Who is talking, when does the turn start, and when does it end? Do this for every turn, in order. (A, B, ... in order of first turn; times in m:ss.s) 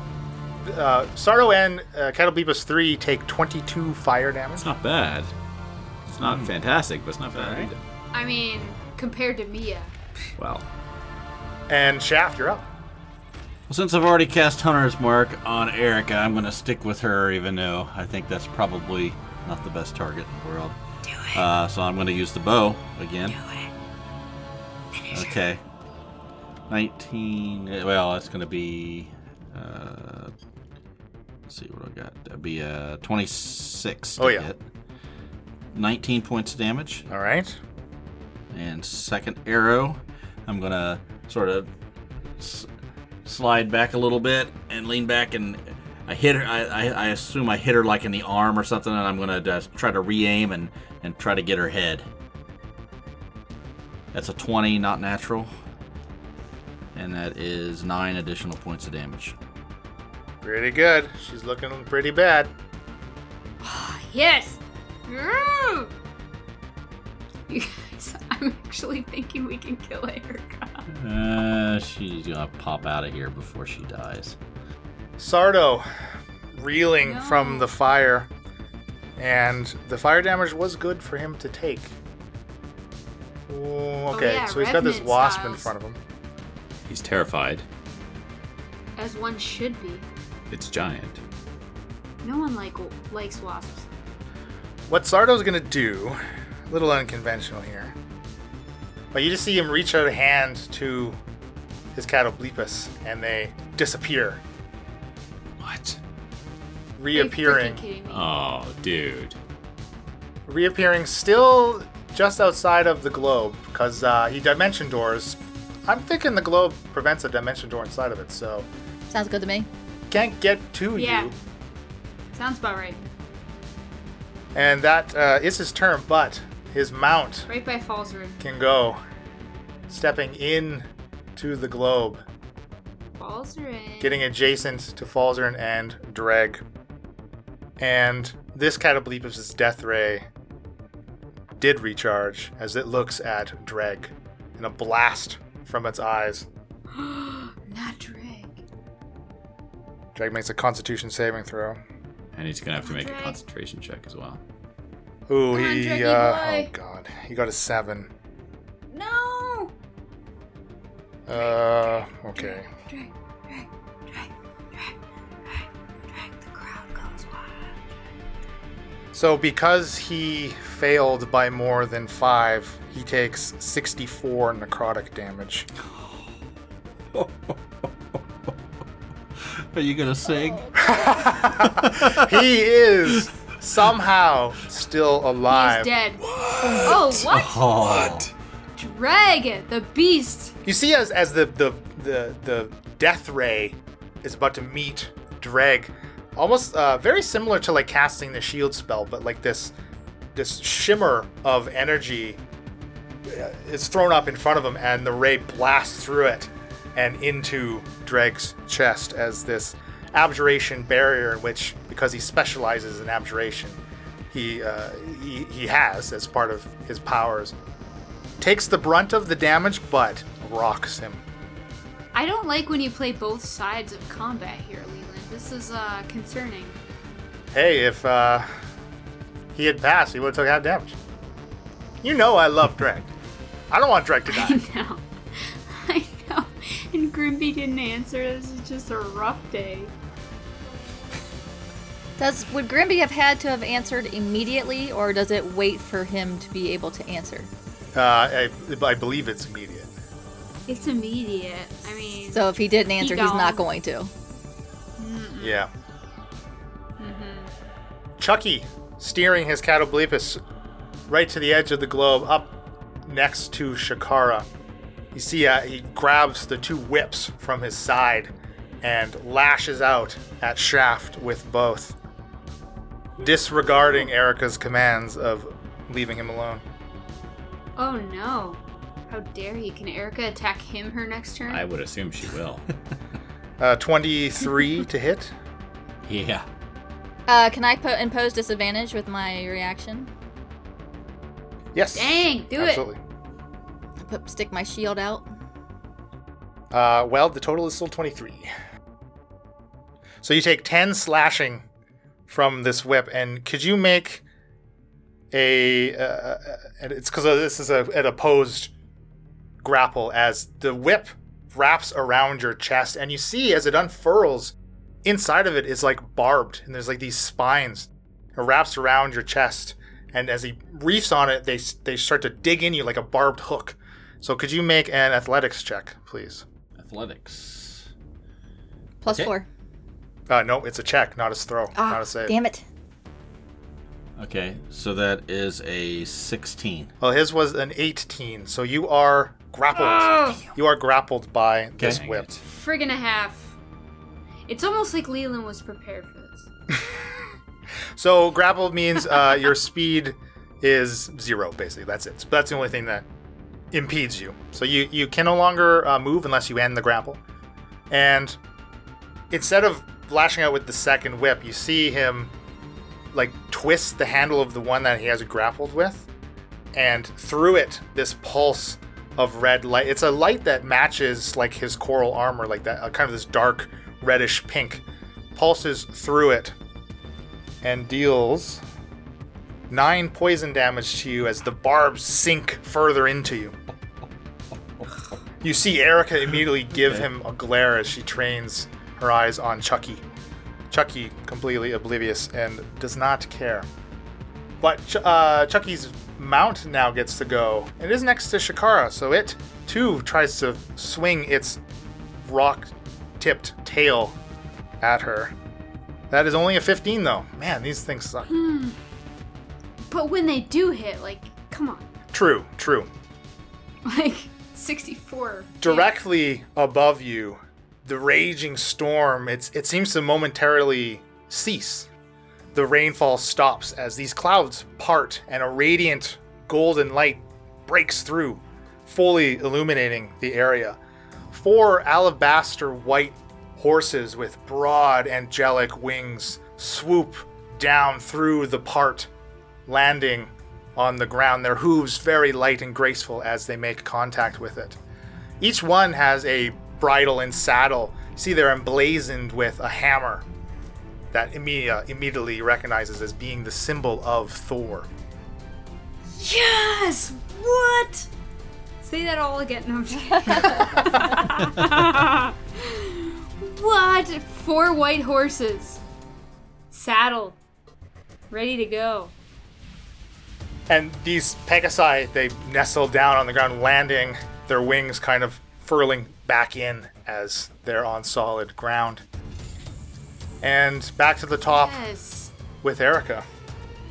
0:00.6-0:04.7 A
0:04.6-0:05.3 B
0:06.1-0:07.8 B
0:06.2-0:06.5 C
0:07.3-0:07.7 C
0:08.1-0:09.9 D
0:10.4-0:10.6 B
0:11.7-0:12.6 A
0:13.7-0:20.8 C
0:21.0-0:21.4 D
0:21.3-0:23.4 C
0:23.3-0:23.7 D
0:25.0-0:25.3 D
0:25.1-0:25.6 C
0:26.7-0:30.3 C
0:31.5-0:34.6 C
0:34.2-0:34.5 A
0:35.7-0:37.1 C
0:37.1-0:37.6 A
0:38.5-0:41.7 C
0:42.4-0:42.7 C
0:43.3-0:52.1 C
0:54.1-0:55.5 C
0:56.9-0:59.4 C
1:00.4-1:02.5 A
1:03.6-1:05.9 D
1:07.5-1:10.8 D
1:10.9-1:14.4 C
1:15.2-1:15.9 A
1:16.5-1:18.3 A
1:17.0-1:17.7 D
1:19.2-1:22.0 A
1:23.5-1:26.0 A
1:24.1-1:25.7 D
1:26.9-1:27.6 B
1:29.0-1:30.1 D
1:30.5-1:31.2 B
1:32.2-1:33.9 D
1:34.9-1:38.0 A
1:39.1-1:41.2 A
1:42.0-1:44.4 A
1:45.6-1:46.0 B
1:47.0-1:47.8 A
1:47.1-1:48.3 D
1:48.1-1:49.4 B
1:50.5-1:58.7 A
1:59.1-1:59.7 E
2:00.1-2:01.4 A
2:01.0-2:01.3 D
2:02.3-2:03.0 D
2:04.5-2:07.5 A
2:07.5-2:08.4 D
2:08.4-2:09.0 A
2:09.9-2:12.2 A
2:13.2-2:14.2 D
2:14.0-2:16.6 A
2:17.8-2:20.3 A
2:21.6-2:26.5 A
2:26.9-2:28.6 D
2:30.2-2:31.8 A
2:32.3-2:34.4 B
2:32.8-2:33.4 D
2:35.3-2:38.1 A
2:35.5-2:36.7 D
2:38.9-2:39.7 D
2:41.3-2:42.7 A
2:41.3-2:41.7 D
2:42.4-2:45.0 D
2:45.5-2:47.8 D
2:49.1-2:55.7 A
2:57.1-2:57.6 C
2:59.4-3:00.9 C
3:00.8-3:05.9 A
3:01.6-3:02.3 C
3:05.5-3:06.2 D
3:06.2-3:08.3 C
3:06.8-3:08.2 D
3:08.8-3:10.6 D
3:10.6-3:19.7 A
3:20.4-3:22.4 A
3:23.3-3:33.8 A
3:34.3-3:37.5 A
3:38.4-3:41.2 A
3:42.1-3:46.8 D
3:47.5-3:48.5 A
3:49.6-3:51.0 A
3:52.0-3:53.1 A
3:53.7-3:54.6 A
3:54.3-3:59.9 D
4:02.2-4:07.5 E
4:07.9-4:09.9 A
4:10.7-4:13.6 D
4:12.3-4:14.1 E
4:15.0-4:15.6 D
4:15.4-4:15.7 A
4:17.0-4:17.5 D
4:18.2-4:20.4 A
4:21.1-4:22.5 A
4:23.0-4:24.5 A
4:25.1-4:32.0 A
4:33.2-4:36.6 A
4:37.8-4:41.6 D
4:41.5-4:42.6 B
4:43.6-4:45.3 A
4:46.1-4:46.5 C
4:47.3-4:50.1 E
4:51.8-4:53.0 A
4:51.9-4:52.9 D
4:54.0-4:55.3 E
4:56.7-4:58.5 A
5:00.2-5:01.6 A
5:02.3-5:04.2 A
5:05.3-5:08.7 A
5:09.6-5:26.4 A
5:26.8-5:27.9 C
5:29.0-5:29.5 E
5:30.3-5:32.4 A
5:31.8-5:32.6 E
5:34.2-5:36.9 C
5:37.0-5:42.3 A
5:39.8-5:40.5 D
5:41.8-5:42.4 B
5:42.4-5:43.6 D
5:44.5-5:46.5 D
5:46.8-5:47.0 A
5:48.0-5:53.1 A
5:53.7-5:57.2 A
5:57.9-5:58.4 A
5:59.3-6:02.3 A
6:03.1-6:06.1 A
6:06.7-6:16.6 A
6:17.6-6:18.6 A
6:19.7-6:23.6 A
6:25.4-6:30.0 A
6:30.7-6:33.7 A
6:34.6-6:41.6 A
6:42.2-6:44.2 A
6:44.8-6:45.4 A
6:46.1-6:48.3 A
6:48.3-6:48.8 D
6:49.9-6:51.9 D
6:52.1-6:52.9 A
6:53.8-6:55.9 D
6:55.6-7:01.9 A
7:02.5-7:10.8 A
7:11.3-7:19.1 A
7:19.7-7:24.8 A
7:25.4-7:30.3 A
7:31.1-7:34.9 A
7:36.2-7:38.1 D
7:38.8-7:45.8 D
7:46.7-7:47.4 D
7:48.3-7:49.1 D
7:50.7-7:59.0 A
8:00.4-8:01.8 A
8:01.5-8:02.3 D
8:02.6-8:03.2 A